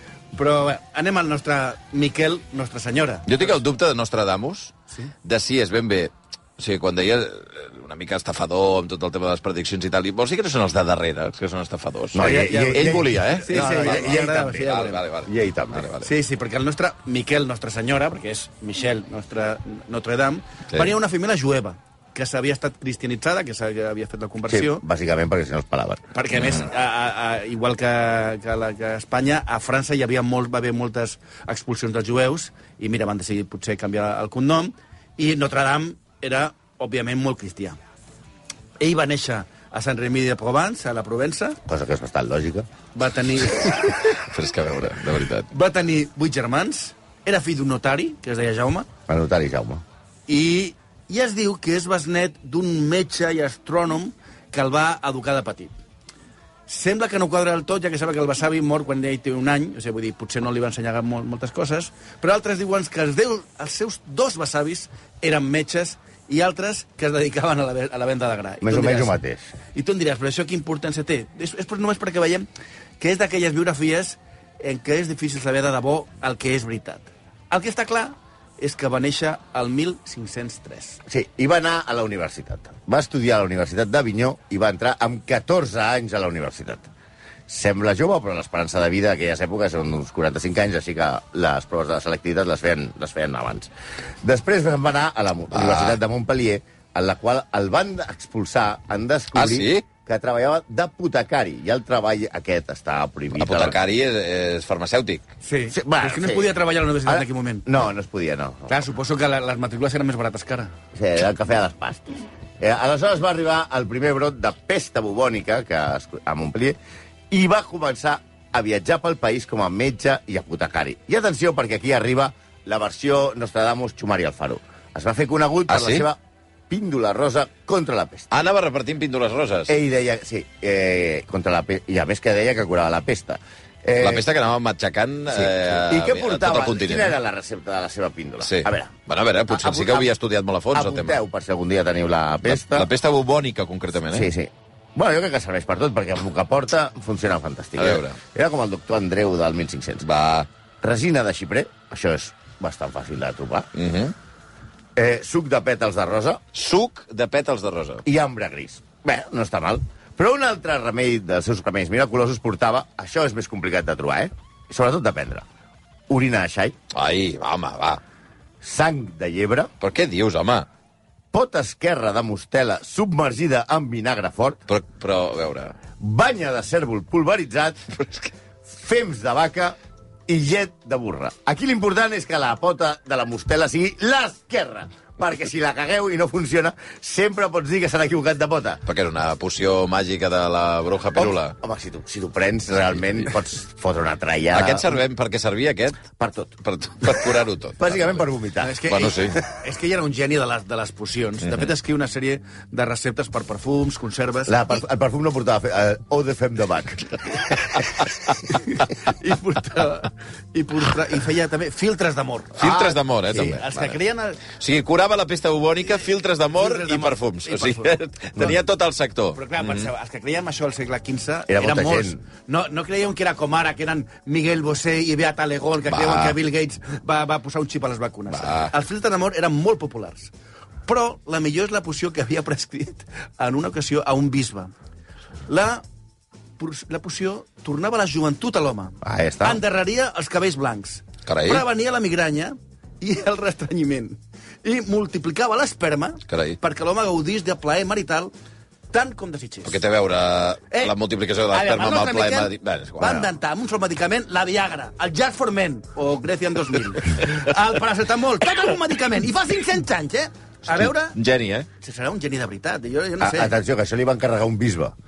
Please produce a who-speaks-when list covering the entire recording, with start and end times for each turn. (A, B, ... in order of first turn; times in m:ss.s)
0:00.3-0:03.4 A
0:03.3-0:16.1 B
0:12.1-0:15.9 C
0:12.2-0:15.0 A
0:16.0-0:24.8 A
0:24.5-0:26.0 C
0:26.1-0:37.8 A
0:38.8-0:41.6 A
0:41.7-0:42.7 C
0:43.0-0:44.1 A
0:44.0-0:45.5 B
0:45.5-0:48.9 A
0:49.1-0:49.8 C
0:50.3-0:55.7 A
0:56.7-1:09.2 A
1:08.6-1:09.5 C
1:09.7-1:12.5 A
1:13.0-1:21.0 A
1:21.1-1:26.9 C
1:27.5-1:33.7 C
1:34.2-1:43.8 C
1:35.5-1:36.0 B
1:39.3-1:39.8 B
1:43.4-1:45.3 B
1:45.4-1:47.7 A
1:45.7-1:46.5 C
1:47.1-1:48.8 C
1:48.7-1:50.7 A
1:50.9-1:56.8 C
1:57.3-2:06.2 C
2:05.7-2:06.1 B
2:06.7-2:08.3 C
2:08.3-2:09.8 B
2:09.7-2:14.2 C
2:14.0-2:17.2 B
2:15.3-2:18.9 C
2:18.4-2:21.2 B
2:19.5-2:20.1 C
2:20.7-2:22.9 C
2:22.4-2:24.3 B
2:24.1-2:30.1 C
2:27.8-2:28.2 B
2:30.0-2:30.5 B
2:30.8-2:33.7 C
2:33.7-2:34.1 B
2:35.0-2:36.4 C
2:36.5-2:38.0 B
2:38.0-2:45.4 C
2:46.1-2:46.8 C
2:46.9-2:48.0 B
2:48.6-2:49.7 C
2:49.8-2:50.7 B
2:51.3-2:54.6 C
2:54.7-2:55.8 B
2:56.0-2:58.0 C
2:58.7-3:08.8 C
3:08.8-3:11.6 B
3:11.2-3:15.0 C
3:14.5-3:16.0 B
3:16.1-3:17.2 C
3:16.6-3:18.2 B
3:17.8-3:18.8 C
3:18.6-3:24.6 A
3:18.9-3:19.4 B
3:24.5-3:27.8 C
3:28.6-3:32.7 A
3:32.6-3:34.0 B
3:32.6-3:33.6 C
3:33.3-3:34.4 A
3:34.5-3:39.9 B
3:36.6-3:38.5 A
3:39.4-3:50.3 A
3:41.5-3:42.2 C
3:45.9-3:46.4 B
3:48.3-3:48.7 B
3:50.9-3:54.7 A
3:55.5-3:55.8 A
3:56.6-4:08.3 A
3:59.0-3:59.6 C
4:01.3-4:01.6 B
4:06.3-4:06.6 B
4:08.9-4:09.8 A
4:09.6-4:13.3 B
4:11.5-4:21.2 A
4:20.7-4:21.7 B
4:21.8-4:23.6 A
4:23.2-4:25.0 C